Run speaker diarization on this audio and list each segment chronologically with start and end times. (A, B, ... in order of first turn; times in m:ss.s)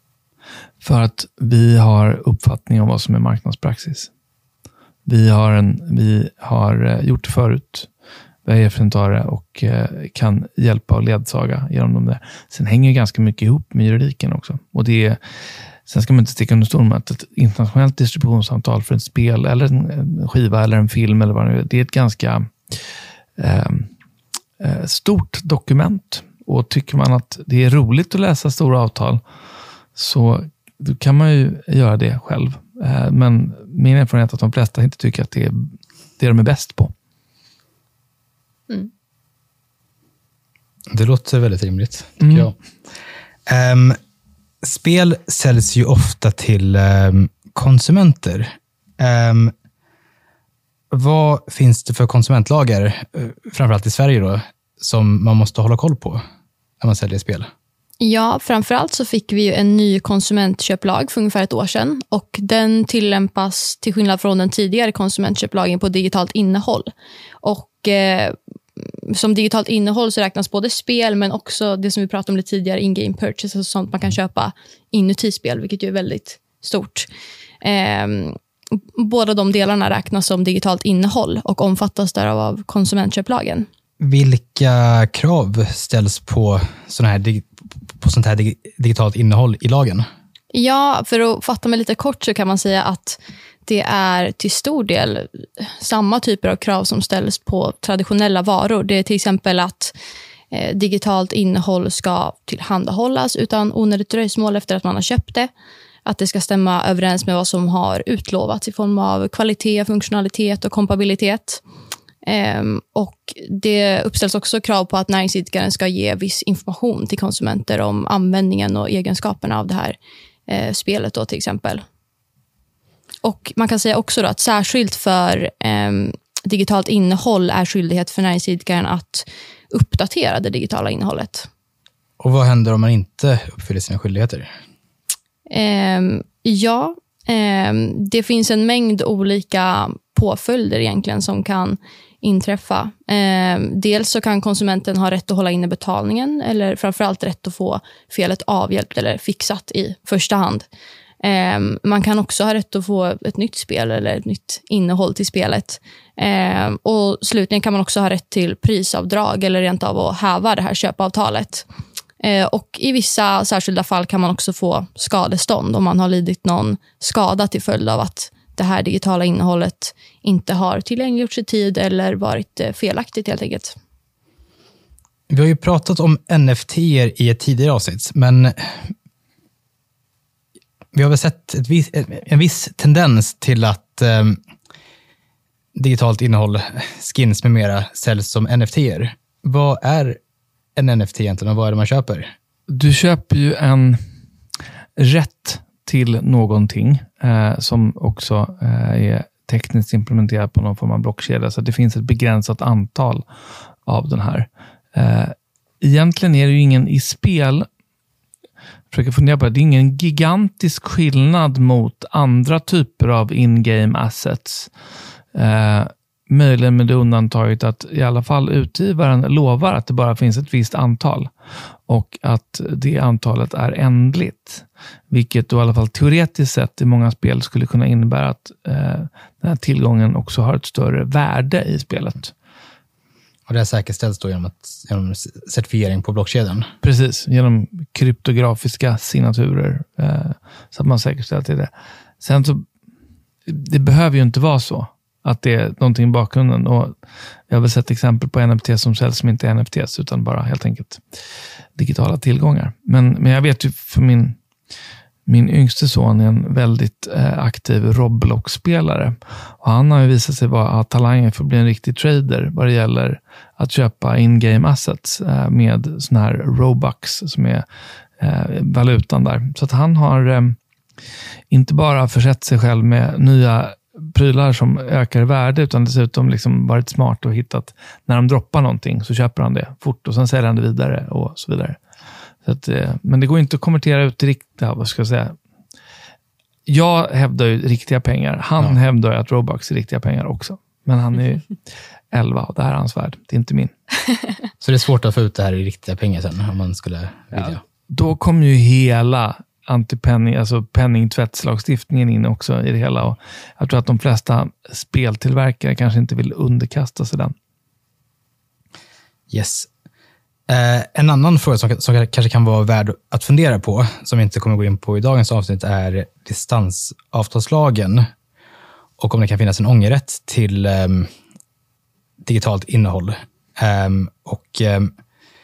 0:00.8-0:04.1 A
0:05.1-0:07.9 A
0:08.4-0:15.2 A
0:15.9-0:22.8 A
0:23.4-0:23.9 A
0:24.6-0:29.2 A
0:30.0-0:36.9 A
0:40.9-0:42.6 B
0:42.2-0:42.5 A
0:43.5-0:44.0 B
0:44.6-0:49.5 B
0:50.9-0:56.2 B
0:56.8-0:57.5 B
0:58.0-1:06.9 C
1:07.4-1:17.1 C
1:17.6-1:18.4 C
1:19.0-1:23.7 C
1:24.0-1:30.1 B
1:30.5-1:39.9 C
1:40.5-1:45.5 C
1:46.1-1:51.6 C
1:52.2-2:00.0 C
2:00.5-2:01.8 C
2:03.2-2:11.5 C
2:12.2-2:14.5 B
2:15.5-2:30.7 C
2:31.2-2:41.7 C
2:42.2-2:53.8 C
2:55.3-2:58.9 B
3:00.9-3:04.4 B
3:05.8-3:10.2 B
3:10.8-3:12.3 B
3:12.7-3:14.0 A
3:15.0-3:23.2 A
3:23.8-3:27.7 A
3:28.9-3:34.7 A
3:35.3-3:41.3 A
3:41.9-3:52.3 A
3:53.5-3:56.7 B
3:56.8-4:01.7 A
4:02.2-4:02.7 A
4:03.5-4:07.0 A
4:07.5-4:11.0 A
4:11.8-4:14.4 A
4:15.3-4:27.6 A
4:28.2-4:30.6 A
4:31.5-4:41.8 A
4:42.4-4:45.4 A
4:46.7-4:51.5 A
4:52.1-4:53.7 A
4:54.6-4:57.6 B
4:57.4-5:07.4 A
5:09.3-5:09.7 B
5:10.5-5:18.1 B
5:19.0-5:21.1 B
5:22.2-5:24.9 B